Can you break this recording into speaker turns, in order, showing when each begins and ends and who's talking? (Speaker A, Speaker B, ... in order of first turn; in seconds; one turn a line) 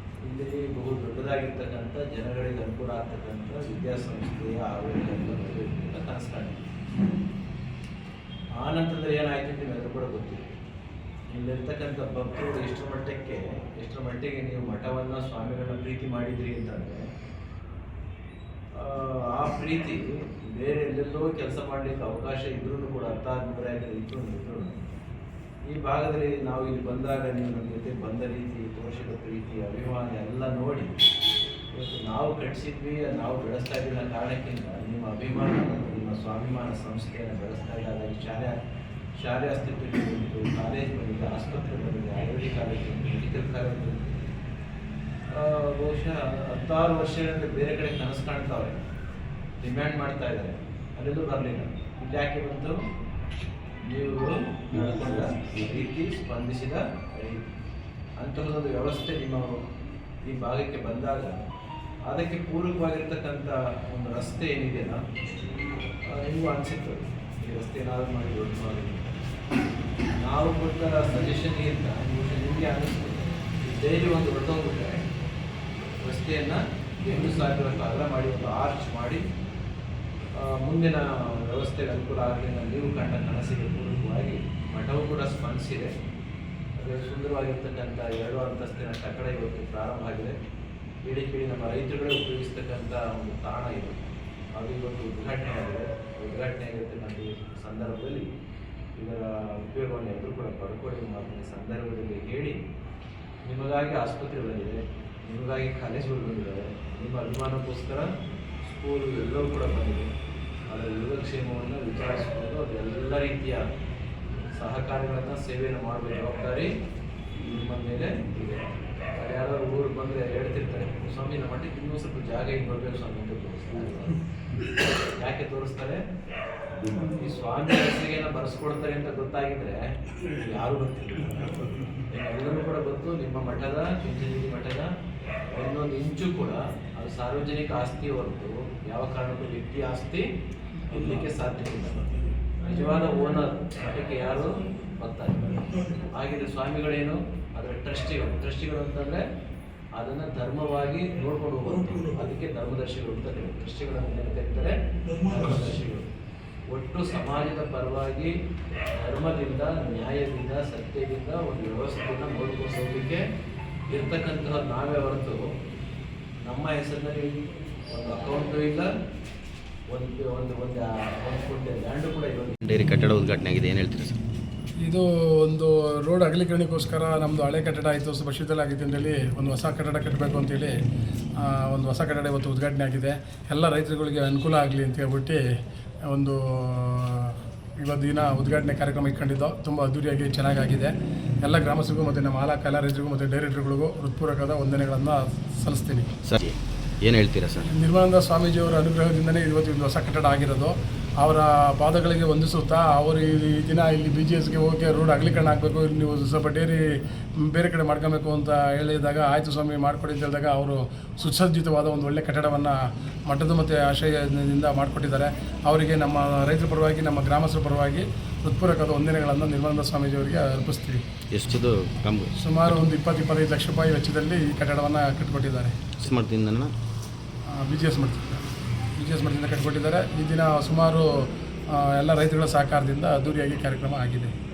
Speaker A: 0.2-6.6
Speaker A: 8.6-10.5
Speaker A: 11.3-17.0
Speaker A: 18.8-24.7
Speaker A: 25.7-30.9
Speaker A: 31.7-38.6
Speaker A: 39.2-44.2
Speaker A: 45.3-48.8
Speaker A: 49.6-52.8
Speaker A: 53.8-57.5
Speaker B: 54.8-55.6
Speaker A: 58.2-59.5
Speaker A: 60.3-61.4
Speaker A: 62.1-65.0
Speaker A: 66.1-69.1
Speaker A: 70.2-75.0
Speaker A: 76.0-79.2
Speaker A: 80.4-85.9
Speaker A: 86.8-90.3
Speaker A: 91.0-94.0
Speaker A: 94.5-98.3
Speaker A: 99.0-102.6
Speaker A: 103.5-108.1
Speaker A: 108.7-110.1
Speaker A: 110.7-113.6
Speaker A: 114.6-116.7
Speaker A: 117.4-118.6
Speaker A: 119.2-124.2
Speaker A: 125.2-126.0
Speaker A: 126.8-134.9
Speaker A: 135.5-140.2
Speaker A: 140.9-142.1
Speaker A: 142.6-149.2
Speaker A: 150.0-156.1
Speaker A: 156.7-158.3
Speaker A: 158.9-163.2
Speaker A: 163.9-165.4
Speaker A: 166.4-168.9
Speaker A: 169.9-172.6
Speaker B: 172.6-174.2
Speaker C: 174.8-180.7
Speaker C: 181.4-185.4
Speaker C: 186.1-196.1
Speaker B: 196.2-197.7
Speaker C: 197.6-206.8
Speaker C: 207.4-212.8
Speaker C: 213.3-221.0
Speaker B: 221.3-222.3
Speaker C: 222.4-225.9
Speaker B: 226.0-226.7
Speaker C: 227.5-228.5
Speaker C: 229.0-231.1
Speaker C: 231.7-234.3